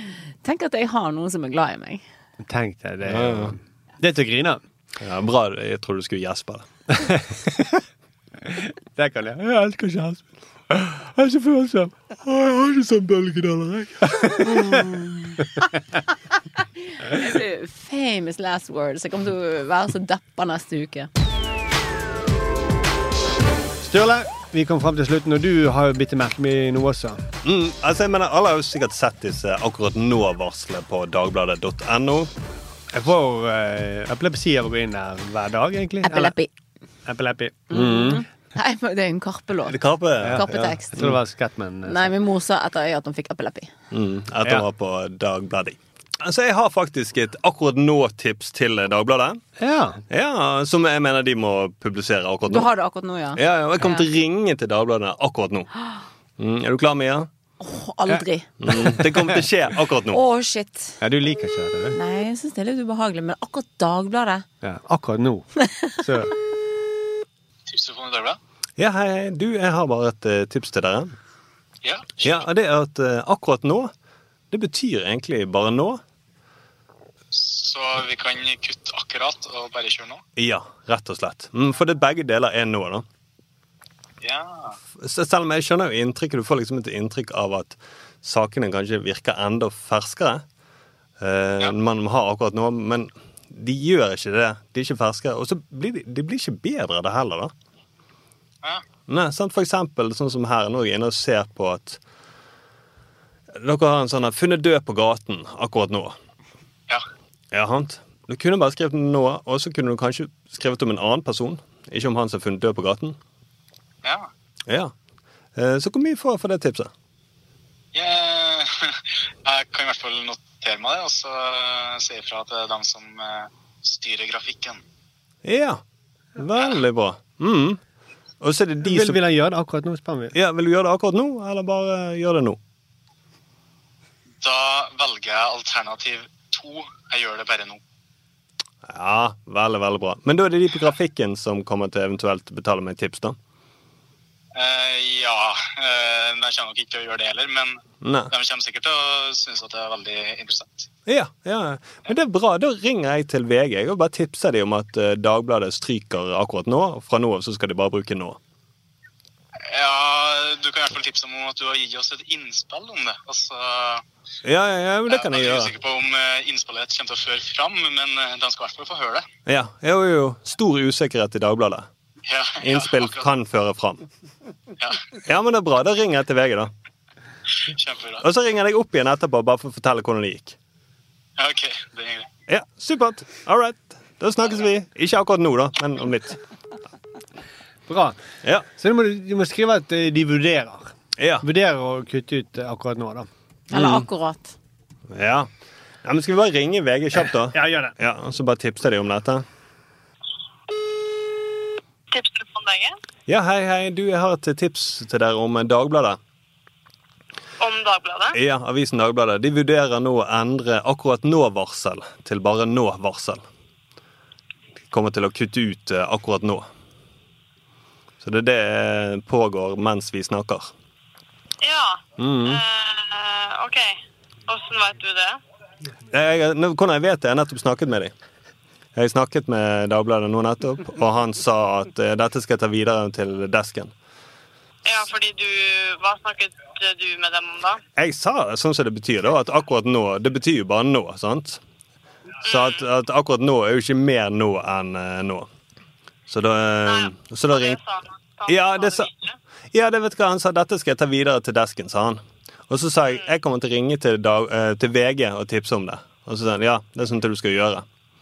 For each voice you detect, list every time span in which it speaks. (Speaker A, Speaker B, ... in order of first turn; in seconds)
Speaker A: 0.4-2.0, 14.7-15.1, 17.1-21.1, 36.0-36.5, 37.7-41.1, 41.9-43.7, 52.5-54.0, 57.6-58.5, 60.1-61.0, 62.0-64.5, 193.7-194.6
Speaker B: 2.4-4.6, 6.9-7.8, 8.5-12.0, 14.0-14.9, 23.8-27.2, 32.9-36.4, 37.1-38.2, 40.2-42.1, 49.6-50.0, 58.1-59.4, 61.0-62.0, 64.6-66.3, 128.8-130.3, 187.9-188.2, 188.8-193.3, 197.2-197.9
Speaker C: 3.1-3.5, 5.0-6.7, 12.2-14.1, 27.4-32.3, 39.7-41.2, 43.9-49.4, 50.1-52.7, 53.4-55.7, 56.4-57.3, 58.6-60.2, 68.8-71.1, 72.2-73.9, 74.5-76.0, 80.4-83.0, 85.0-90.4, 91.2-97.5, 99.1-102.0, 103.6-106.2, 107.5-113.2, 114.7-114.9, 115.6-116.9, 125.5-125.8, 126.4-127.8, 128.4-129.2, 130.3-132.6, 138.9-143.4, 148.0-148.3, 151.1-158.4, 164.4-165.7, 169.5-171.9, 172.6-174.1, 175.3-176.7, 178.2-180.6, 182.5-186.4, 191.2-191.4, 193.7-194.1, 195.1-195.5, 196.0-199.4, 203.3-206.2, 208.3-213.4, 214.9-216.7, 218.2-220.7, 222.2-222.6, 226.1-228.1, 228.9-233.9, 238.0-241.6, 242.4-245.5, 246.3-247.8, 248.5-249.1, 249.7-257.9
Speaker D: 67.7-68.4, 71.8-72.4, 77.3-80.2, 84.2-84.8, 114.0-114.3, 117.9-124.8, 134.4-137.8, 144.6-147.8, 148.3-150.9, 159.7-164.0, 165.1-169.3, 172.3-173.3, 177.7-178.2, 181.4-182.3
Speaker E: 202.1-202.9, 207.6-208.4, 221.6-225.4, 234.8-237.8, 242.5-242.8, 246.9-249.4